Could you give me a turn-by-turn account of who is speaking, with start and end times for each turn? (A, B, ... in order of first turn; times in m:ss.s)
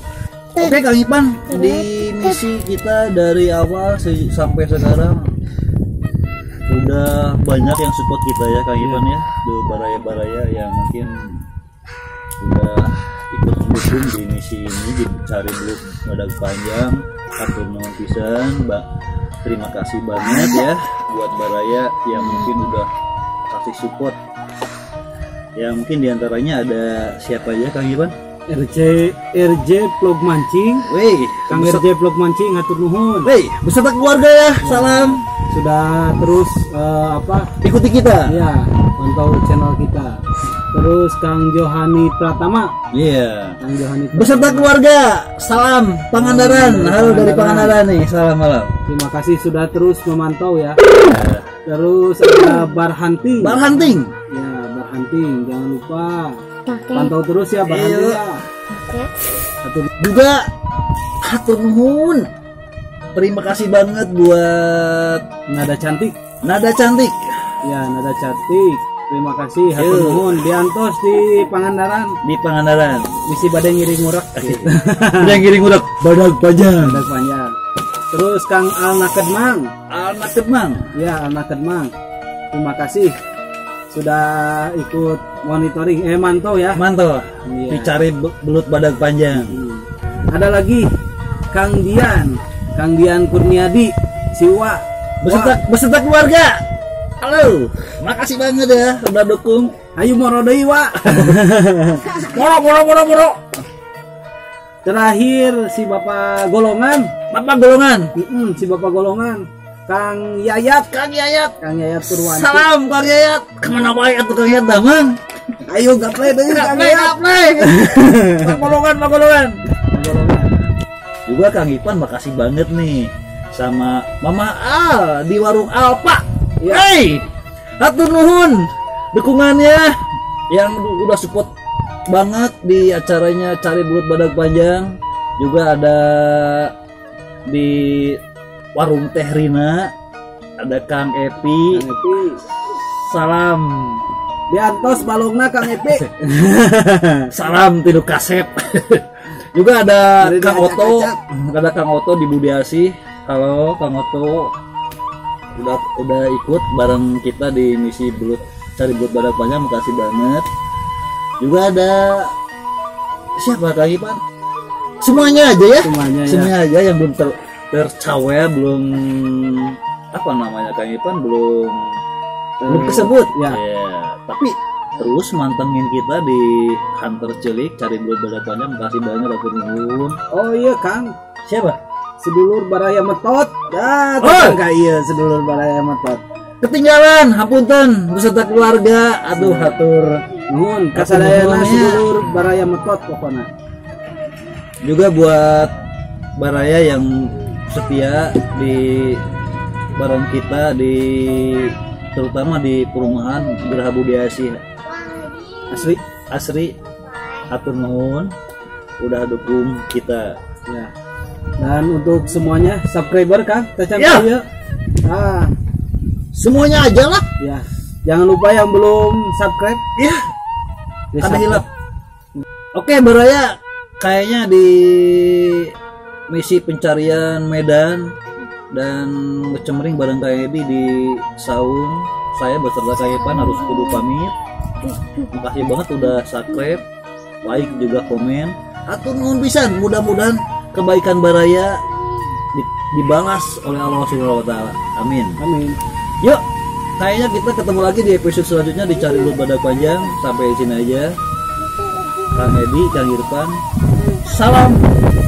0:00.6-0:05.3 A
0:06.7-0:11.4 A
0:12.4-0:18.9 A
0:19.4-0:22.9 A
0:23.5-0:24.2 A
0:25.6-0:28.2 A
0:28.5-0:30.9 B
0:30.8-0:31.8 A
0:31.5-0:33.3 B
0:33.2-0:35.3 A
0:34.6-0:37.6 B
0:37.6-0:38.4 A
0:38.3-0:40.2 B
0:40.7-0:42.8 B
0:42.9-0:43.6 A
0:43.6-0:44.7 B
0:44.1-0:48.8 A
0:46.1-0:47.8 B
0:48.9-0:50.8 B
0:51.0-0:51.5 A
0:51.7-0:53.7 B
0:53.4-0:54.1 A
0:54.3-0:58.4 B
0:57.7-0:58.2 A
0:59.6-0:59.9 B
1:00.0-1:00.5 A
1:01.2-1:02.3 A
1:03.1-1:05.2 A
1:05.5-1:06.2 B
1:06.4-1:07.6 A
1:07.6-1:12.2 B
1:09.8-1:10.4 A
1:12.2-1:13.2 A
1:13.2-1:15.4 B
1:14.4-1:17.0 A
1:16.8-1:17.5 B
1:18.1-1:19.7 B
1:19.9-1:20.9 A
1:20.9-1:21.9 B
1:22.5-1:23.2 B
1:23.9-1:26.8 B
1:26.8-1:29.6 A
1:27.5-1:27.9 B
1:29.4-1:30.9 B
1:31.5-1:35.6 B
1:35.2-1:36.6 A
1:37.2-1:39.7 A
1:40.0-1:42.2 B
1:41.0-1:41.4 A
1:42.0-1:43.4 A
1:44.8-1:47.1 B
1:47.3-1:48.1 A
1:48.2-1:51.0 B
1:50.9-1:51.5 A
1:51.6-1:52.7 B
1:52.1-1:55.2 A
1:55.7-1:58.6 B
1:56.3-1:59.6 A
1:59.9-2:00.6 B
2:01.3-2:07.3 A
2:06.6-2:06.9 B
2:07.8-2:09.9 A
2:10.5-2:11.5 A
2:12.1-2:16.7 A
2:17.5-2:18.2 A
2:18.8-2:19.9 A
2:20.6-2:21.8 A
2:21.7-2:22.4 B
2:22.7-2:24.0 A
2:24.5-2:27.3 B
2:27.3-2:34.5 A
2:30.2-2:31.2 B
2:35.5-2:40.5 A
2:41.4-2:42.3 A
2:43.4-2:44.2 A
2:45.0-2:51.9 A
2:45.8-2:46.5 B
2:52.6-2:53.6 B
2:52.7-3:00.2 A
3:00.3-3:01.1 B
3:01.5-3:01.8 A
3:02.2-3:06.2 B
3:04.2-3:04.6 A
3:06.6-3:10.2 A
3:09.4-3:09.8 B
3:10.5-3:13.5 B
3:11.0-3:12.1 A
3:14.8-3:15.7 A
3:16.4-3:19.2 A
3:20.0-3:24.6 A
3:25.7-3:26.8 A
3:27.4-3:28.3 A
3:29.0-3:30.4 A
3:30.7-3:30.9 B
3:31.6-3:34.5 B
3:34.0-3:34.3 A
3:35.0-3:35.5 B
3:36.3-3:37.3 A
3:37.4-3:39.8 B
3:41.1-3:41.7 B
3:41.2-3:41.6 A
3:42.8-3:45.7 A
3:46.3-3:48.1 A
3:48.7-3:54.3 A
3:55.2-3:56.8 A
3:57.4-4:01.8 A
4:02.5-4:05.4 A
4:05.4-4:05.8 B
4:07.0-4:11.2 A
4:12.2-4:14.9 A